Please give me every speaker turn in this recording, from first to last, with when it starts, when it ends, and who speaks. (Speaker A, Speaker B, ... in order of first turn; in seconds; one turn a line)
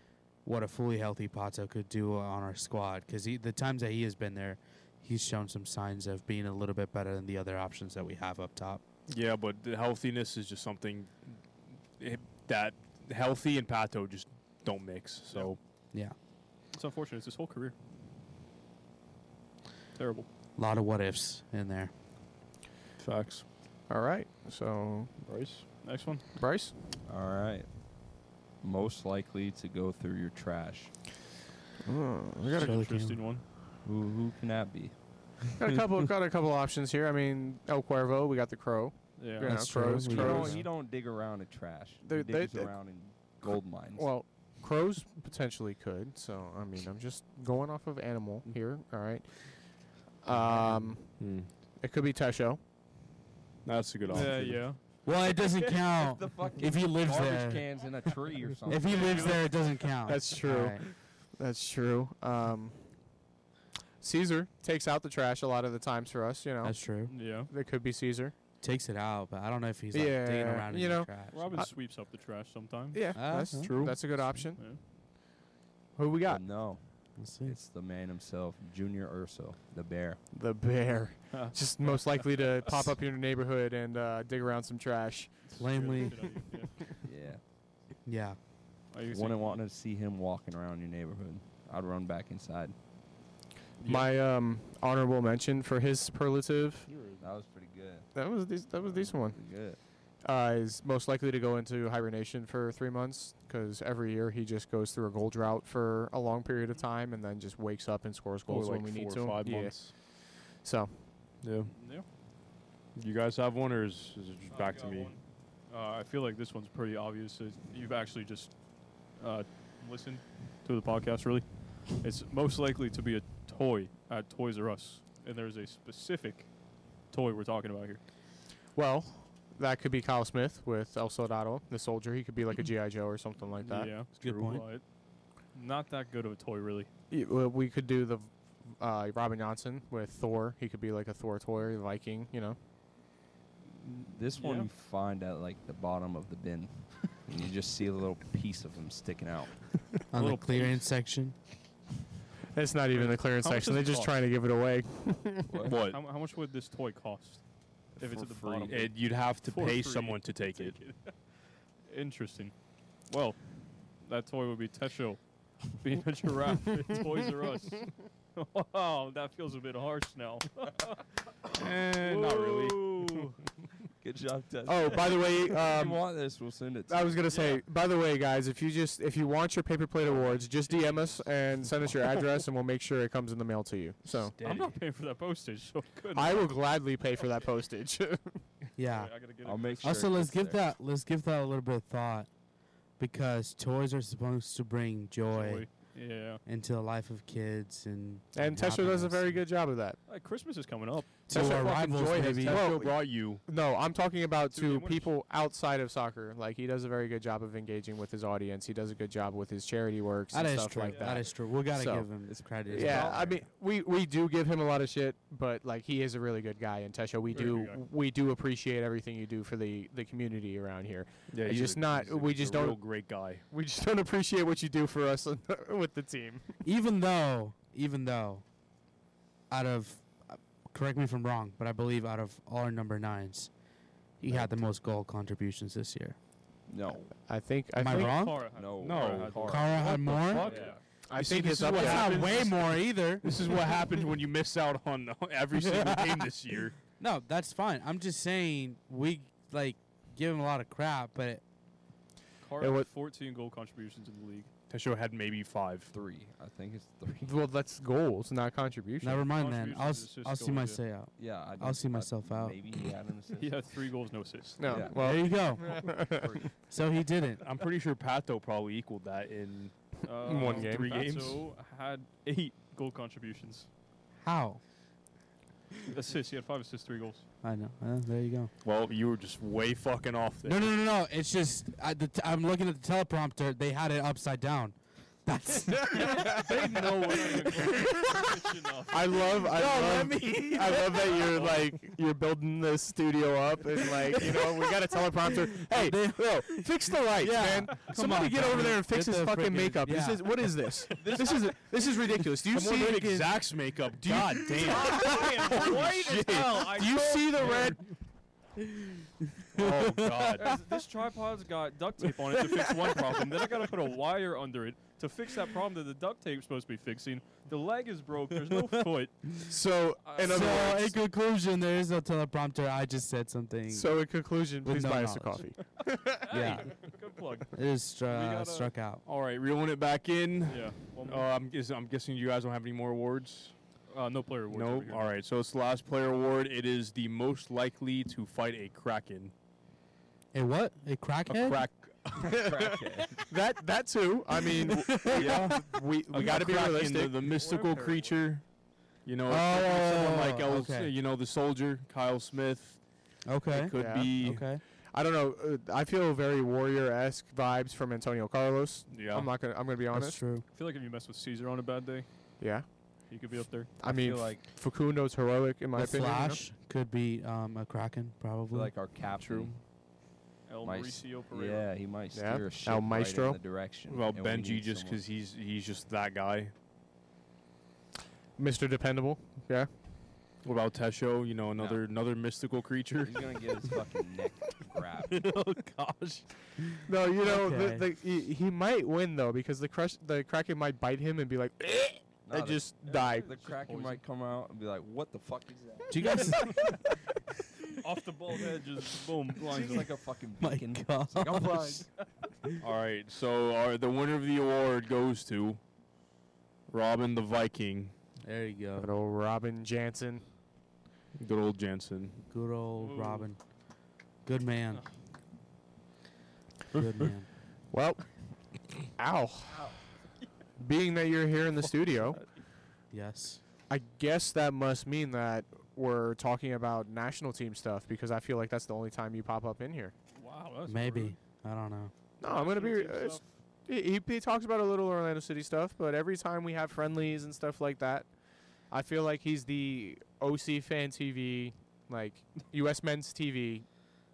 Speaker A: 0.4-8.8
Speaker B: 9.1-11.4
Speaker B: 12.0-15.6
Speaker C: 16.7-17.7
Speaker C: 20.0-20.3
Speaker A: 20.6-21.9
Speaker B: 23.0-23.4
Speaker D: 23.9-25.2
Speaker B: 25.3-25.6
Speaker C: 25.8-26.2
Speaker D: 26.4-26.8
Speaker E: 27.1-28.0
Speaker E: 28.6-30.9
Speaker D: 31.8-32.8
Speaker C: 32.4-33.4
Speaker A: 32.6-33.2
Speaker E: 33.8-35.3
Speaker D: 35.6-40.6
Speaker C: 39.2-39.5
Speaker A: 39.4-40.7
Speaker E: 39.9-44.1
Speaker D: 42.0-52.6
Speaker A: 50.3-51.0
Speaker B: 51.2-51.5
Speaker B: 53.6-54.7
Speaker C: 54.0-54.8
Speaker A: 55.0-57.9
Speaker E: 55.3-59.5
Speaker A: 58.7-60.8
Speaker C: 58.7-59.5
Speaker D: 59.8-62.9
Speaker D: 64.0-66.8
Speaker A: 66.6-67.1
Speaker C: 67.1-67.5
Speaker D: 67.5-68.3
Speaker A: 68.6-71.5
Speaker D: 69.9-71.7
Speaker C: 71.3-73.0
Speaker D: 72.9-74.8
Speaker A: 73.2-74.3
Speaker B: 73.5-74.0
Speaker C: 74.3-74.8
Speaker D: 76.0-76.6
Speaker E: 76.2-80.2
Speaker A: 77.2-77.6
Speaker D: 80.3-86.2
Speaker C: 81.3-82.8
Speaker C: 85.5-86.7
Speaker A: 85.6-86.4
Speaker E: 87.0-87.4
Speaker A: 88.0-88.4
Speaker C: 88.9-89.6
Speaker E: 89.1-92.8
Speaker D: 93.8-96.9
Speaker B: 96.9-97.2
Speaker E: 97.2-98.1
Speaker D: 98.1-99.5
Speaker E: 98.8-99.8
Speaker D: 100.2-111.1
Speaker B: 108.5-109.9
Speaker B: 111.4-111.7
Speaker C: 111.7-112.0
Speaker B: 113.0-115.1
Speaker C: 114.4-118.5
Speaker C: 119.1-126.5
Speaker C: 127.1-128.0
Speaker D: 128.7-133.9
Speaker C: 133.6-134.8
Speaker B: 134.2-134.6
Speaker A: 134.2-134.7
Speaker C: 135.5-136.9
Speaker D: 137.1-142.6
Speaker C: 143.8-144.7
Speaker E: 144.2-149.7
Speaker A: 150.1-151.3
Speaker C: 150.2-150.7
Speaker D: 152.5-155.6
Speaker C: 152.9-154.2
Speaker E: 155.5-155.7
Speaker B: 155.6-156.0
Speaker C: 155.7-157.4
Speaker E: 158.0-158.9
Speaker C: 158.0-161.1
Speaker B: 158.7-160.8
Speaker C: 161.9-162.5
Speaker C: 163.1-163.5
Speaker C: 164.0-173.4
Speaker B: 171.5-173.2
Speaker E: 174.0-177.4
Speaker D: 174.7-176.3
Speaker D: 176.9-184.3
Speaker C: 177.3-177.6
Speaker C: 180.1-181.3
Speaker B: 184.4-184.7
Speaker C: 184.4-186.6
Speaker D: 186.2-188.4
Speaker A: 188.8-189.1
Speaker C: 188.8-190.2
Speaker E: 189.4-190.7
Speaker A: 189.8-192.3
Speaker A: 193.0-195.7
Speaker C: 195.3-196.4
Speaker A: 196.4-199.4
Speaker D: 198.3-200.0
Speaker C: 200.1-201.1
Speaker A: 201.3-202.7
Speaker D: 201.3-226.6
Speaker B: 201.3-203.4
Speaker C: 204.5-205.1
Speaker A: 210.3-213.2
Speaker C: 210.8-211.2
Speaker E: 212.3-213.4
Speaker C: 217.3-217.8
Speaker B: 221.3-223.4
Speaker A: 226.6-228.4
Speaker A: 229.5-233.5
Speaker A: 234.2-236.2
Speaker E: 236.7-237.1
Speaker D: 237.3-238.3
Speaker A: 237.8-238.5
Speaker C: 237.9-240.8
Speaker E: 238.4-240.8
Speaker B: 238.8-240.6
Speaker A: 239.5-240.5
Speaker D: 241.0-242.7
Speaker B: 241.2-242.5
Speaker A: 241.7-243.3
Speaker B: 243.2-246.7
Speaker A: 245.5-246.3
Speaker A: 247.0-251.4
Speaker C: 252.4-254.5
Speaker D: 252.6-252.9
Speaker B: 254.7-255.9
Speaker E: 255.9-257.3
Speaker D: 257.2-259.2
Speaker A: 259.0-262.8
Speaker C: 259.3-260.8
Speaker E: 261.1-263.6
Speaker C: 263.4-264.8
Speaker D: 264.6-266.3
Speaker E: 264.6-266.5
Speaker A: 265.0-266.0
Speaker A: 266.7-267.4
Speaker B: 267.4-271.4
Speaker C: 270.0-273.7
Speaker D: 270.2-270.9
Speaker A: 274.2-274.6
Speaker C: 275.9-277.2
Speaker A: 277.4-278.5
Speaker B: 278.6-280.8
Speaker A: 280.4-288.4
Speaker D: 285.7-287.7
Speaker C: 286.0-289.4
Speaker D: 288.9-307.9
Speaker A: 289.4-291.4
Speaker C: 291.3-291.7
Speaker A: 293.8-300.7
Speaker B: 297.2-297.8
Speaker C: 301.0-301.5
Speaker B: 302.5-306.7
Speaker C: 304.6-307.9
Speaker A: 304.8-305.2
Speaker A: 308.7-310.5
Speaker B: 309.6-310.6
Speaker C: 310.4-319.3
Speaker D: 312.7-313.2
Speaker D: 319.4-321.0
Speaker C: 320.0-320.7
Speaker A: 320.2-323.9
Speaker D: 323.7-326.6
Speaker A: 324.6-325.5
Speaker C: 326.1-328.7
Speaker A: 326.3-326.9
Speaker A: 327.5-329.0
Speaker B: 329.1-333.5
Speaker C: 330.5-331.2
Speaker C: 333.9-335.1
Speaker B: 334.5-339.3
Speaker A: 340.3-341.6
Speaker B: 341.3-342.3
Speaker D: 342.2-347.3
Speaker E: 342.3-343.3
Speaker A: 344.6-345.5
Speaker B: 345.1-348.5
Speaker C: 347.3-348.2
Speaker B: 349.1-352.8
Speaker A: 349.3-350.9
Speaker A: 353.2-354.6
Speaker B: 353.5-354.5
Speaker D: 353.8-360.2
Speaker B: 358.9-359.3
Speaker A: 359.9-360.4
Speaker C: 360.5-362.1
Speaker D: 362.4-363.1
Speaker C: 363.1-363.7
Speaker D: 363.8-366.4
Speaker E: 363.8-364.5
Speaker A: 365.8-368.7
Speaker E: 368.5-369.6
Speaker B: 369.1-369.5
Speaker C: 370.5-371.7
Speaker E: 370.6-375.0
Speaker D: 372.1-373.4
Speaker B: 373.9-376.5
Speaker D: 378.4-379.7
Speaker B: 380.4-383.3
Speaker E: 381.6-381.8
Speaker E: 382.9-385.2
Speaker A: 385.1-387.9
Speaker D: 386.9-393.3
Speaker E: 392.2-396.4
Speaker C: 392.8-394.0
Speaker A: 395.9-396.8
Speaker C: 397.8-399.9
Speaker E: 399.4-401.9
Speaker A: 400.4-401.9
Speaker B: 402.6-405.6
Speaker B: 406.7-407.9
Speaker A: 408.2-408.9
Speaker D: 408.8-410.2
Speaker B: 411.2-412.2
Speaker A: 412.3-413.4
Speaker C: 412.8-413.3
Speaker A: 414.2-414.8
Speaker A: 416.7-417.3
Speaker D: 417.7-418.1
Speaker D: 419.0-419.7
Speaker D: 420.6-422.2
Speaker A: 422.9-423.4
Speaker D: 423.7-429.9
Speaker C: 430.1-431.2
Speaker A: 430.7-431.9
Speaker D: 432.2-438.1
Speaker C: 432.2-433.2
Speaker D: 438.7-443.7